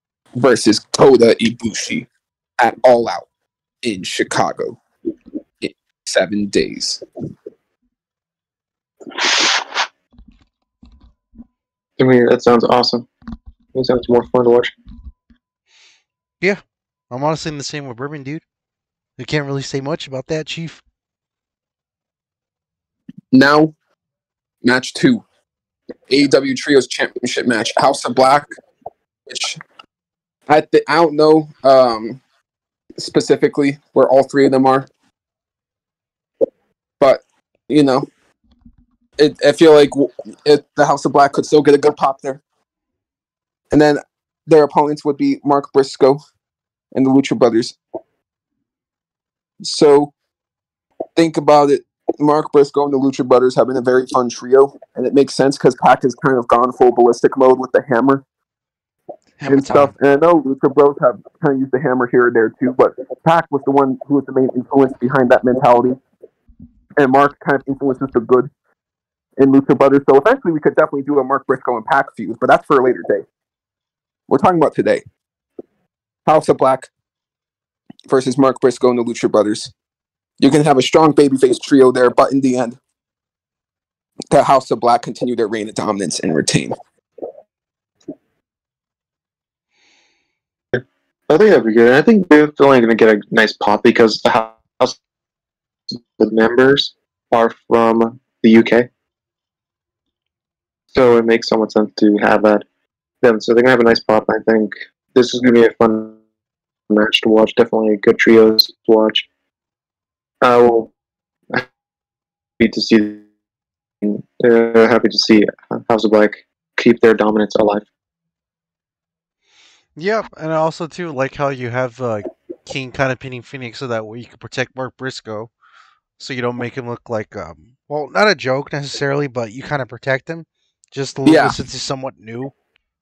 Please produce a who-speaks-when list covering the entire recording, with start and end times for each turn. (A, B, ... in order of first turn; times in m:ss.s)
0:00.4-0:03.3 A
0:03.8-0:04.8 A
0:05.6-0:07.0 A
0:12.0-0:13.1 B
0:13.7-0:14.7 B
0:16.4-0:18.4 C
0:19.2-0:20.8 C
0:23.3-0:23.7 A
0:24.6-0:25.2 A
0:26.1-0:28.5 A
0:29.3-0:29.6 A
0:30.5-0:32.2 A
0:33.0-0:34.9 A
0:37.0-0:38.1 A
0:39.2-0:42.4 A
0:43.7-0:46.2 A
0:46.9-0:47.8 A
0:49.6-0:50.1 A
0:51.2-0:58.2 A
0:59.4-0:59.9 C
0:59.5-1:06.0 A
1:07.0-1:08.5 A
1:09.4-1:13.2 A
1:14.3-1:15.0 A
1:16.3-1:16.9 A
1:18.1-1:19.7 A
1:20.4-1:22.8 A
1:24.3-1:26.8 A
1:30.7-1:35.0 B
1:35.9-1:38.9 B
1:40.9-1:42.6 B
1:43.2-1:46.2 B
1:46.9-1:49.3 B
1:50.4-1:50.9 B
1:52.6-1:53.3 B
1:54.0-1:57.8 B
2:00.0-2:05.5 C
2:06.2-2:12.5 C
2:11.2-2:11.6 A